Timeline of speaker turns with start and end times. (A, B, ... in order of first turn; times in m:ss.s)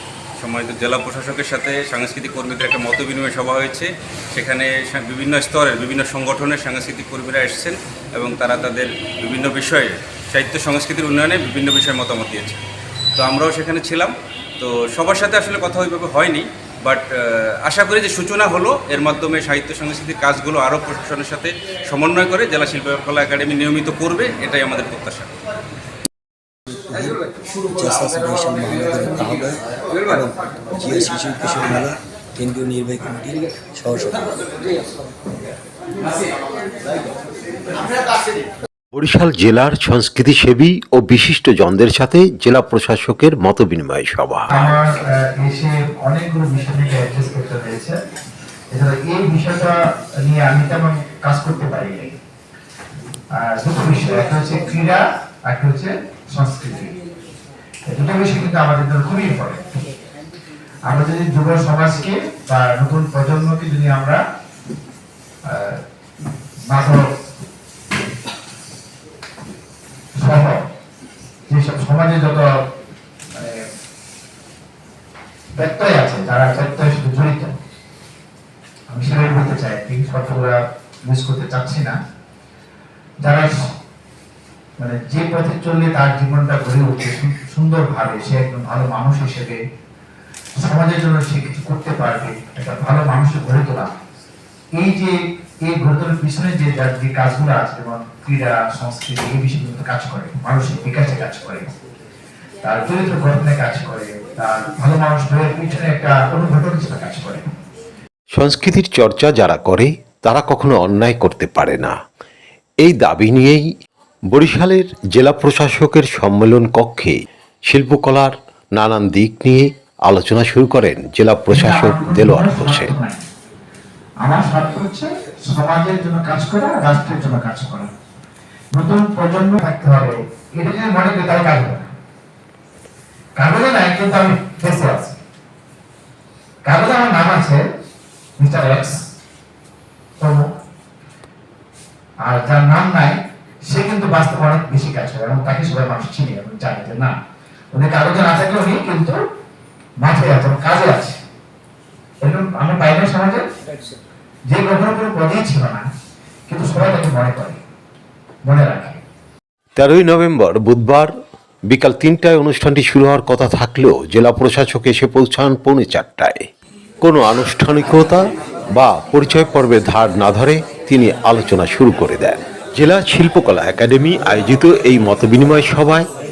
0:00.4-0:12.6 A
0:13.2-0:25.3 A
0:26.7-0:34.4 B
0:38.9-0:44.5 C
0:44.5-0:48.0 D
0:48.7-0:52.2 D
0:53.3-0:56.9 D
0:57.9-0:59.6 D
1:00.9-1:04.2 D
1:05.4-1:05.8 D
1:06.7-1:07.0 D
1:10.2-1:10.6 D
1:11.5-1:12.5 D
1:13.3-1:13.6 D
1:15.6-1:17.5 D
1:18.9-1:22.0 D
1:23.2-1:23.5 D
1:24.8-1:29.6 D
1:30.6-1:33.9 D
1:34.8-1:35.2 D
1:35.7-1:41.7 D
1:42.6-1:47.4 D
1:48.3-1:51.9 C
1:52.8-1:53.7 C
1:54.3-2:02.9 C
2:01.5-2:03.2 D
2:04.2-2:07.9 D
2:08.7-2:11.9 D
2:13.4-2:15.2 D
2:16.6-2:17.6 D
2:18.4-2:19.0 D
2:20.2-2:20.4 D
2:22.2-2:27.1 D
2:27.7-2:29.2 D
2:30.0-2:31.2 D
2:32.2-2:33.4 D
2:34.5-2:35.8 D
2:36.5-2:37.6 D
2:38.4-2:39.0 D
2:39.8-2:41.1 C
2:41.7-2:46.5 C
2:47.0-2:56.1 C